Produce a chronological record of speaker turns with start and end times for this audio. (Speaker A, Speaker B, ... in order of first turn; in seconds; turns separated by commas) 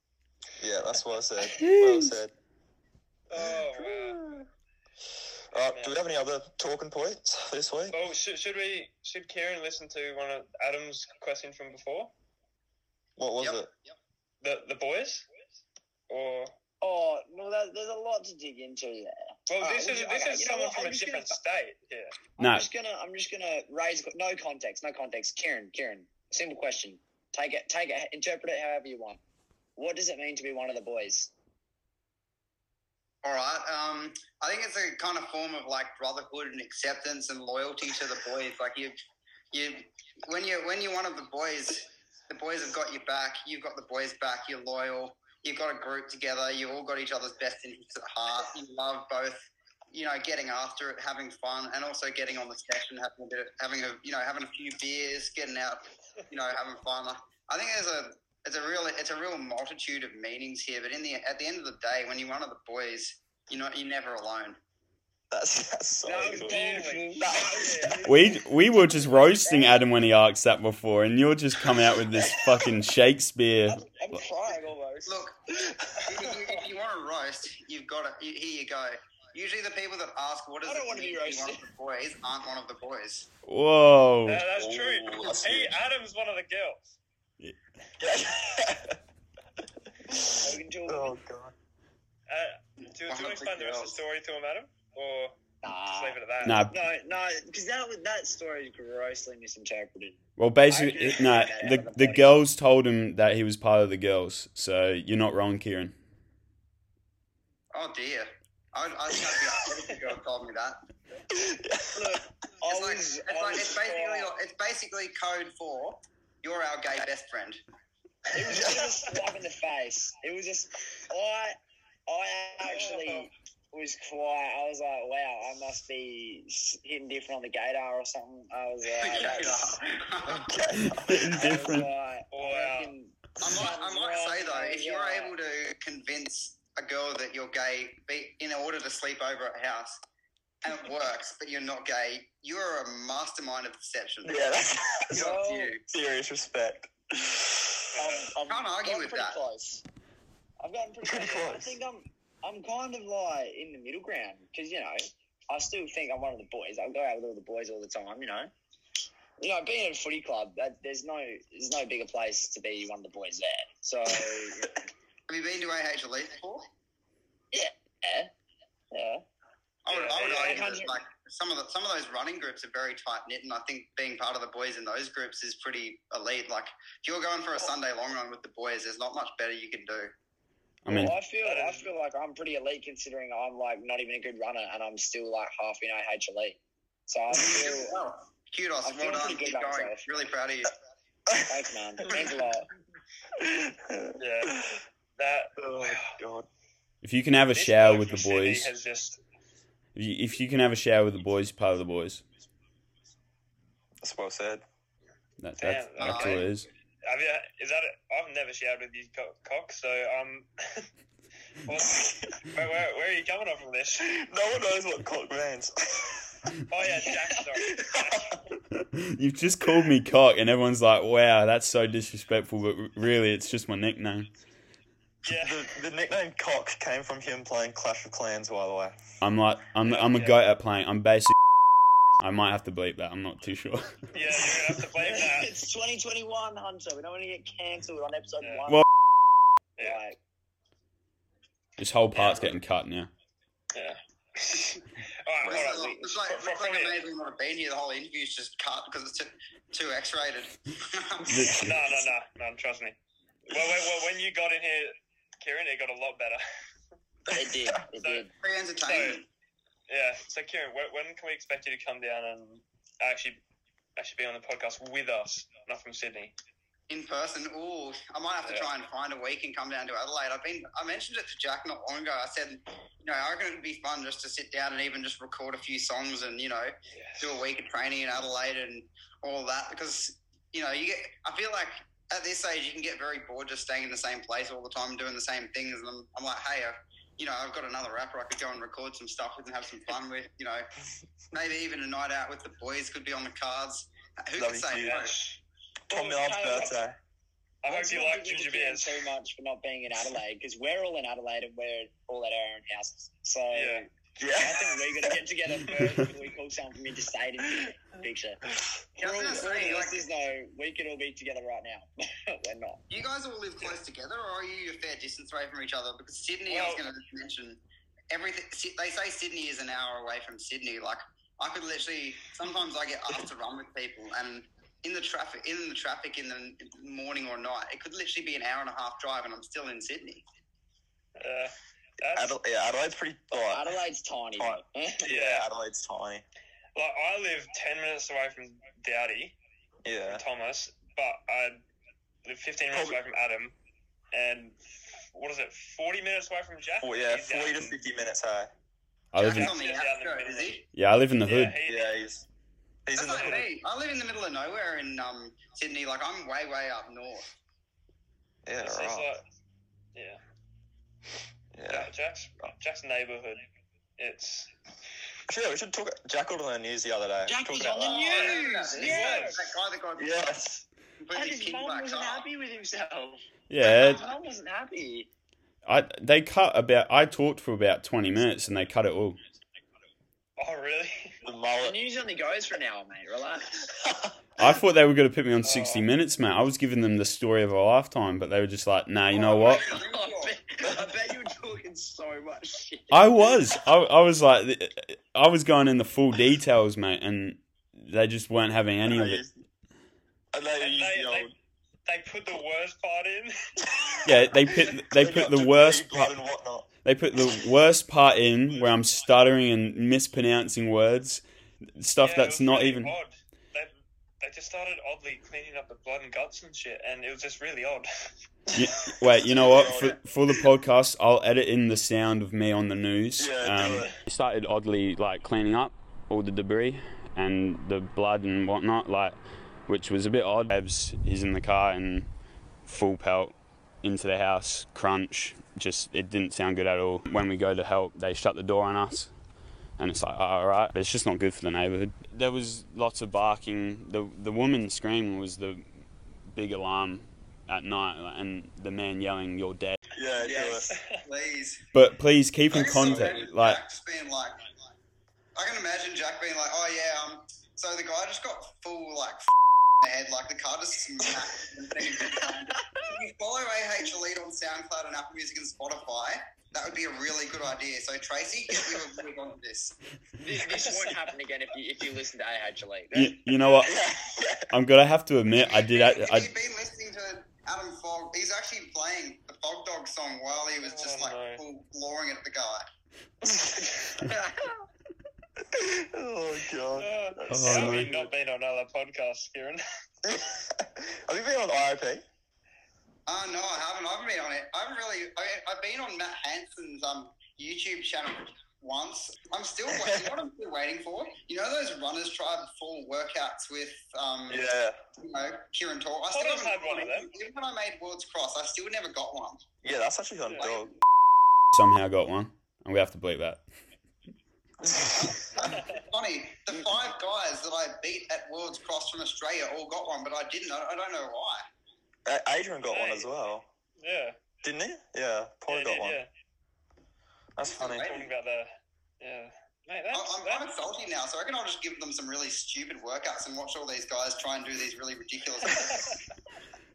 Speaker A: 0.6-2.3, Speaker B: 1.6-2.1, Speaker C: 3.3-4.2, Speaker A: 3.4-4.5, Speaker A: 5.5-8.0, Speaker C: 5.7-6.0, Speaker C: 7.9-12.1, Speaker A: 13.2-13.7, Speaker D: 13.4-13.7, Speaker C: 14.4-15.2, Speaker C: 16.1-16.5, Speaker E: 16.8-21.4, Speaker C: 19.5-22.1, Speaker E: 22.4-29.2, Speaker B: 22.4-22.6, Speaker E: 29.8-31.3, Speaker D: 33.2-38.9, Speaker D: 39.5-64.6, Speaker A: 65.3-68.0, Speaker E: 66.0-68.4, Speaker C: 66.3-67.2, Speaker B: 68.0-73.8, Speaker E: 69.1-69.8, Speaker E: 73.7-75.2, Speaker D: 75.0-75.4, Speaker A: 75.5-76.2, Speaker D: 76.0-83.3, Speaker E: 80.6-81.7, Speaker B: 83.5-84.4, Speaker C: 84.2-87.0, Speaker A: 84.5-85.8, Speaker A: 88.0-89.0, Speaker A: 90.0-91.5, Speaker E: 90.4-91.1, Speaker C: 92.3-95.3, Speaker D: 93.0-94.0, Speaker E: 95.6-102.4, Speaker C: 95.8-96.7, Speaker B: 96.4-96.8, Speaker B: 100.4-105.9, Speaker D: 107.7-110.8, Speaker A: 111.3-112.2, Speaker E: 111.9-114.3, Speaker D: 112.6-117.6, Speaker E: 118.3-129.8, Speaker A: 118.5-118.9, Speaker C: 122.6-123.3, Speaker D: 128.9-130.5, Speaker A: 130.2-131.4, Speaker B: 130.8-131.9, Speaker E: 131.3-135.3, Speaker C: 132.3-132.9, Speaker D: 133.4-140.0, Speaker D: 140.6-144.5, Speaker A: 144.2-145.3, Speaker D: 145.1-145.9, Speaker E: 145.1-145.8, Speaker A: 145.9-147.8, Speaker C: 147.9-148.3, Speaker E: 147.9-149.8, Speaker D: 148.4-149.4, Speaker E: 150.6-158.5, Speaker A: 151.0-151.8, Speaker E: 159.4-164.8, Speaker D: 165.3-166.7, Speaker E: 167.5-168.3, Speaker E: 168.9-169.2, Speaker D: 169.8-180.1, Speaker C: 169.9-170.8, Speaker E: 170.3-170.9, Speaker B: 180.8-181.2, Speaker E: 180.8-188.0, Speaker C: 181.4-181.9, Speaker D: 187.3-190.7, Speaker E: 188.8-190.1, Speaker E: 191.4-192.7, Speaker A: 193.3-194.8, Speaker C: 194.2-194.6, Speaker C: 195.2-196.1, Speaker A: 195.6-196.5, Speaker B: 197.0-198.7, Speaker C: 197.5-199.2, Speaker B: 199.9-202.2, Speaker A: 204.0-204.6, Speaker B: 205.4-206.7, Speaker C: 205.6-206.5, Speaker D: 206.0-206.5, Speaker C: 207.0-210.9, Speaker C: 211.6-214.1, Speaker A: 211.8-212.3, Speaker A: 214.0-216.4, Speaker C: 216.7-218.4, Speaker A: 217.5-218.4, Speaker B: 218.7-224.3, Speaker C: 225.2-225.7, Speaker A: 225.3-229.0, Speaker B: 229.2-231.3, Speaker C: 229.8-230.4, Speaker B: 232.2-234.6, Speaker C: 234.1-235.5, Speaker E: 235.0-238.8, Speaker E: 239.8-240.2, Speaker B: 241.8-243.1, Speaker C: 242.1-242.5, Speaker C: 243.7-247.0, Speaker D: 245.4-251.5, Speaker E: 245.5-246.3, Speaker B: 251.2-251.7, Speaker C: 251.5-253.0, Speaker C: 253.5-256.4, Speaker A: 257.3-257.8, Speaker E: 257.3-258.3, Speaker C: 258.0-258.3, Speaker D: 258.4-259.2, Speaker C: 258.8-259.2, Speaker C: 259.9-263.4, Speaker C: 264.0-266.3, Speaker D: 266.9-290.6, Speaker C: 276.9-277.4, Speaker D: 291.3-295.2, Speaker A: 294.4-295.0, Speaker C: 294.8-295.4, Speaker A: 295.9-297.0, Speaker E: 295.9-296.8, Speaker C: 297.6-299.1, Speaker E: 297.6-308.4, Speaker C: 303.5-303.9, Speaker A: 304.2-305.2, Speaker E: 309.0-312.8, Speaker D: 309.0-310.1, Speaker D: 312.9-317.6, Speaker C: 316.5-316.8, Speaker D: 318.1-330.2, Speaker C: 331.2-332.4, Speaker A: 332.1-333.7, Speaker E: 333.4-335.1, Speaker A: 334.4-336.2, Speaker C: 335.1-335.5, Speaker C: 336.8-339.4, Speaker A: 339.8-340.2, Speaker C: 340.0-341.6, Speaker C: 342.2-343.5, Speaker A: 342.7-343.0, Speaker C: 344.1-347.8, Speaker A: 346.8-348.5, Speaker B: 349.1-349.6, Speaker D: 349.2-350.6, Speaker C: 349.2-350.6, Speaker B: 350.7-351.6, Speaker C: 351.2-351.9, Speaker A: 351.6-352.2, Speaker A: 352.9-353.5, Speaker D: 352.9-357.3, Speaker A: 358.4-359.1, Speaker C: 358.6-359.2, Speaker C: 359.9-360.2, Speaker A: 361.5-361.9, Speaker C: 361.7-363.4, Speaker C: 364.0-364.5, Speaker A: 365.3-368.1, Speaker E: 367.3-369.5, Speaker D: 367.8-370.3, Speaker C: 368.0-369.5, Speaker A: 369.9-370.6, Speaker D: 371.0-372.3, Speaker E: 371.1-375.1, Speaker B: 373.5-374.1, Speaker B: 375.6-379.2, Speaker C: 380.4-381.1, Speaker A: 381.2-381.8, Speaker E: 381.6-383.6, Speaker A: 383.8-384.1, Speaker B: 384.4-389.7, Speaker C: 385.4-385.9, Speaker D: 389.1-390.4, Speaker E: 389.2-393.2, Speaker B: 392.9-399.2, Speaker A: 398.9-399.4, Speaker A: 400.3-401.3, Speaker C: 400.6-401.3, Speaker C: 401.9-403.3, Speaker A: 403.6-406.7, Speaker B: 404.0-406.1, Speaker B: 406.8-411.2, Speaker B: 411.8-412.9, Speaker C: 412.0-418.1, Speaker A: 418.5-420.4, Speaker B: 418.5-429.1, Speaker A: 423.2-423.9, Speaker B: 429.7-432.1, Speaker B: 432.6-439.1, Speaker B: 439.8-445.7, Speaker B: 446.3-449.8, Speaker A: 449.9-450.7, Speaker D: 450.2-451.6, Speaker C: 450.7-451.0, Speaker B: 451.7-453.6, Speaker D: 452.5-454.4, Speaker A: 452.5-453.2, Speaker D: 455.3-469.7, Speaker E: 470.2-473.6, Speaker C: 470.7-471.0, Speaker B: 472.9-473.7, Speaker A: 473.6-474.5, Speaker B: 474.5-476.3, Speaker D: 475.5-482.6, Speaker C: 480.6-481.4, Speaker A: 483.2-483.7, Speaker E: 484.0-484.5, Speaker A: 485.5-488.1, Speaker C: 486.7-489.6, Speaker B: 487.3-487.9, Speaker A: 490.0-492.0, Speaker D: 493.1-504.4, Speaker A: 499.7-500.1, Speaker A: 504.3-504.8, Speaker D: 505.0-509.4, Speaker C: 506.1-507.1, Speaker A: 509.6-510.8, Speaker C: 510.3-510.6, Speaker B: 511.5-513.4, Speaker A: 514.6-515.1, Speaker D: 514.9-521.4, Speaker A: 522.0-523.5, Speaker C: 522.7-523.1, Speaker C: 523.8-524.1, Speaker A: 524.4-526.0, Speaker C: 525.5-526.1, Speaker A: 527.4-527.9, Speaker D: 527.5-528.1, Speaker C: 527.6-528.5, Speaker C: 529.0-530.5, Speaker D: 529.9-536.0, Speaker C: 535.5-536.0